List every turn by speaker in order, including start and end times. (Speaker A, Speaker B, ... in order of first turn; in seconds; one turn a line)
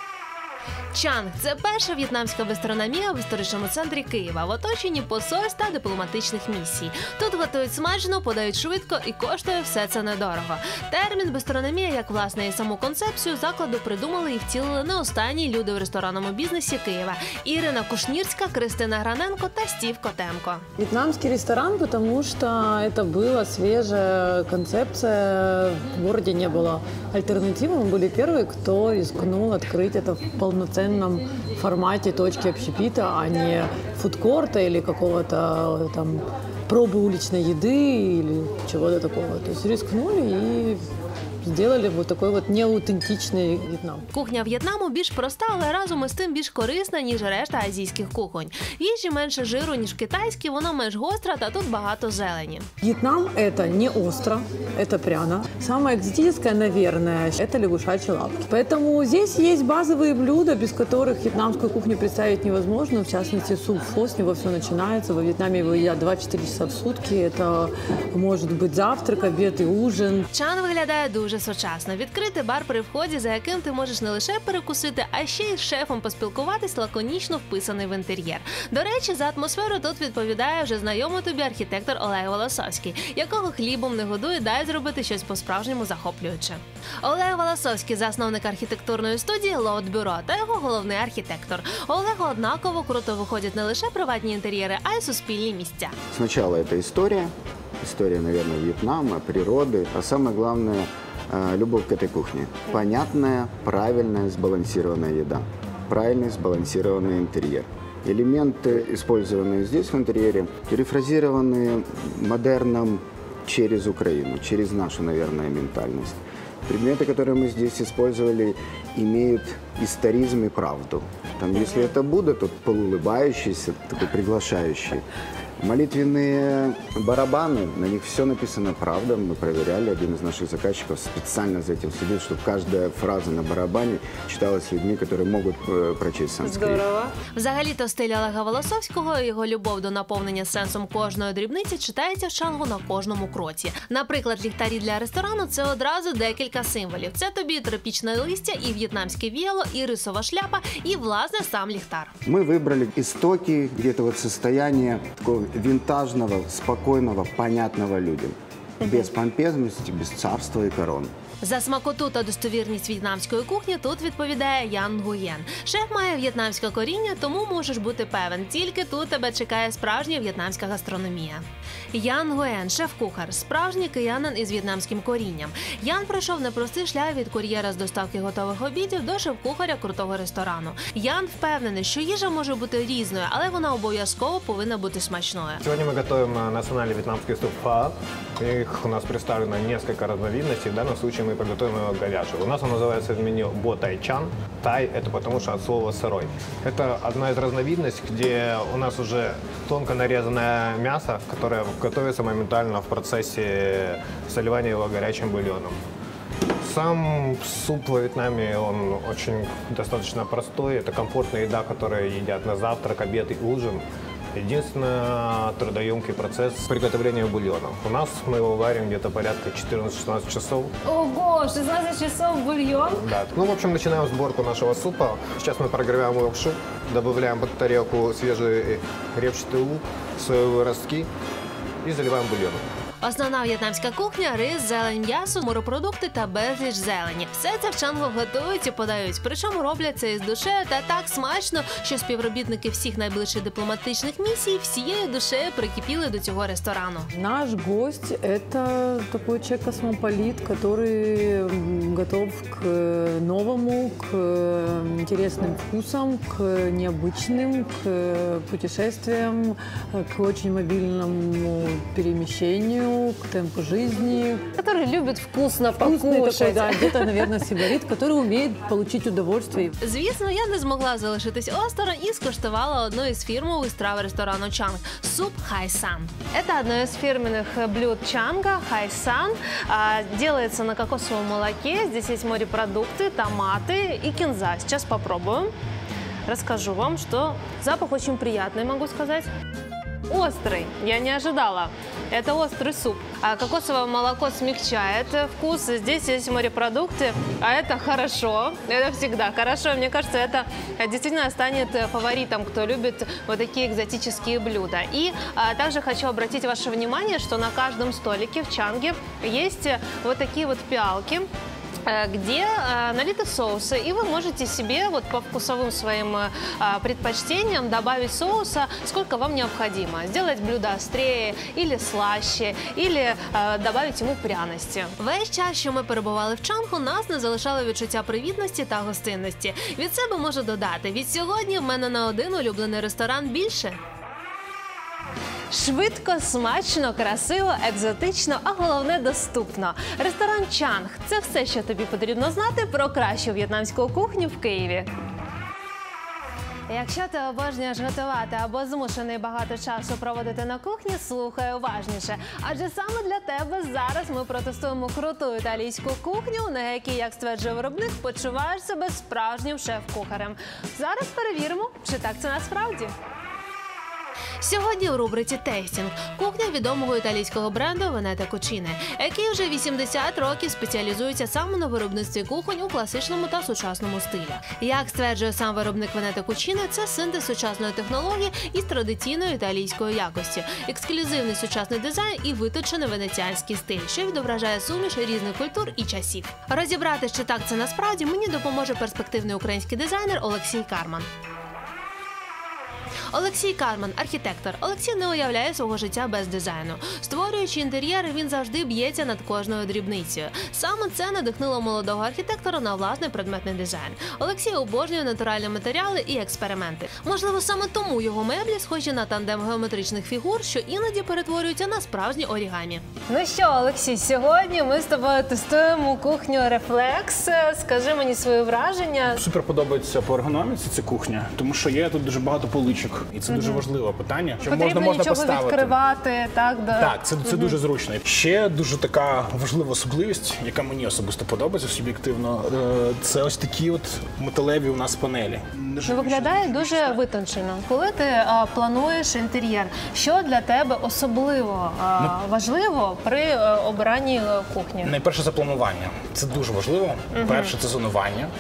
Speaker A: 0.9-20.6
Speaker B: 20.8-40.8
Speaker B: 41.4-44.1
Speaker A: 44.1-52.7
Speaker B: 52.8-70.3
Speaker A: 70.3-96.0
Speaker C: 96.1-125.0
Speaker C: 125.6-136.8
Speaker A: 136.4-152.1
Speaker C: 152.2-161.1
Speaker A: 158.8-159.1
Speaker A: 161.4-185.6
Speaker D: 185.6-205.8
Speaker D: 206.6-213.8
Speaker D: 214.3-220.7
Speaker A: 220.8-223.1
Speaker D: 223.0-231.1
Speaker D: 231.8-232.6
Speaker A: 233.0-247.1
Speaker B: 247.1-264.5
Speaker A: 264.6-267.3
Speaker B: 265.7-269.8
Speaker A: 269.8-285.5
Speaker A: 286.3-289.3
Speaker A: 290.1-311.3
Speaker A: 311.9-333.8
Speaker A: 335.5-344.9
Speaker A: 346.7-362.9
Speaker A: 364.4-391.1
Speaker A: 393.1-419.2
Speaker E: 419.2-425.8
Speaker A: 423.3-423.7
Speaker A: 424.4-427.6
Speaker E: 426.7-437.0
Speaker A: 435.9-444.9
Speaker E: 444.8-448.3
Speaker A: 447.1-447.6